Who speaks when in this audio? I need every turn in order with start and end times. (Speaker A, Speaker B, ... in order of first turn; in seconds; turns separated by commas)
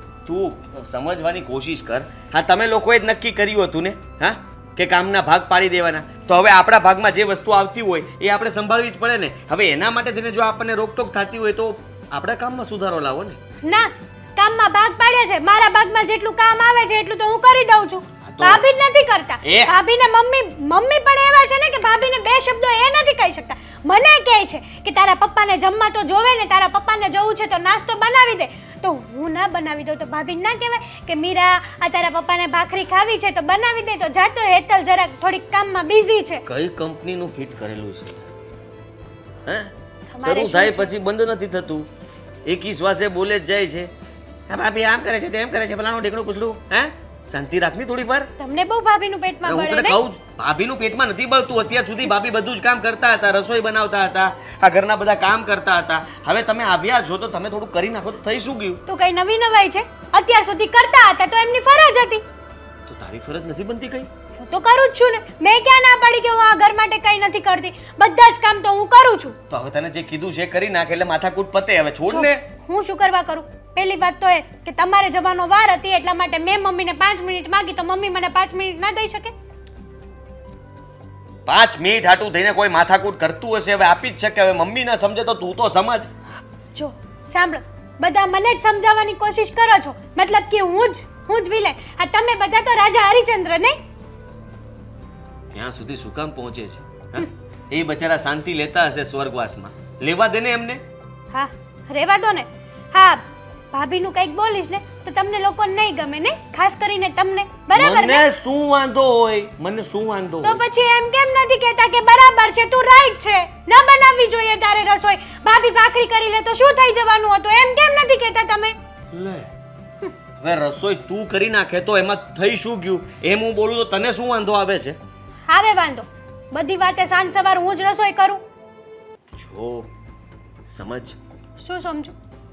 Speaker A: 0.2-13.4, Speaker B: 13.6-36.4, Speaker A: 18.2-18.6, Speaker A: 19.4-19.7, Speaker A: 36.5-38.2, Speaker A: 39.5-39.7, Speaker B: 40.1-40.9, Speaker A: 40.2-41.9, Speaker A: 42.5-43.9, Speaker A: 44.5-48.3, Speaker B: 48.4-50.0, Speaker A: 49.5-58.8, Speaker B: 58.9-62.2, Speaker A: 62.9-64.1, Speaker B: 64.4-69.4, Speaker A: 69.5-72.4, Speaker B: 72.1-79.3, Speaker A: 81.5-86.1, Speaker B: 86.7-93.8, Speaker A: 95.5-100.8, Speaker B: 101.3-108.2, Speaker A: 107.8-110.6, Speaker B: 110.4-118.8, Speaker A: 119.1-119.5, Speaker A: 120.4-125.0, Speaker B: 125.5-128.4, Speaker A: 129.4-129.9, Speaker A: 130.7-131.2, Speaker B: 131.6-132.2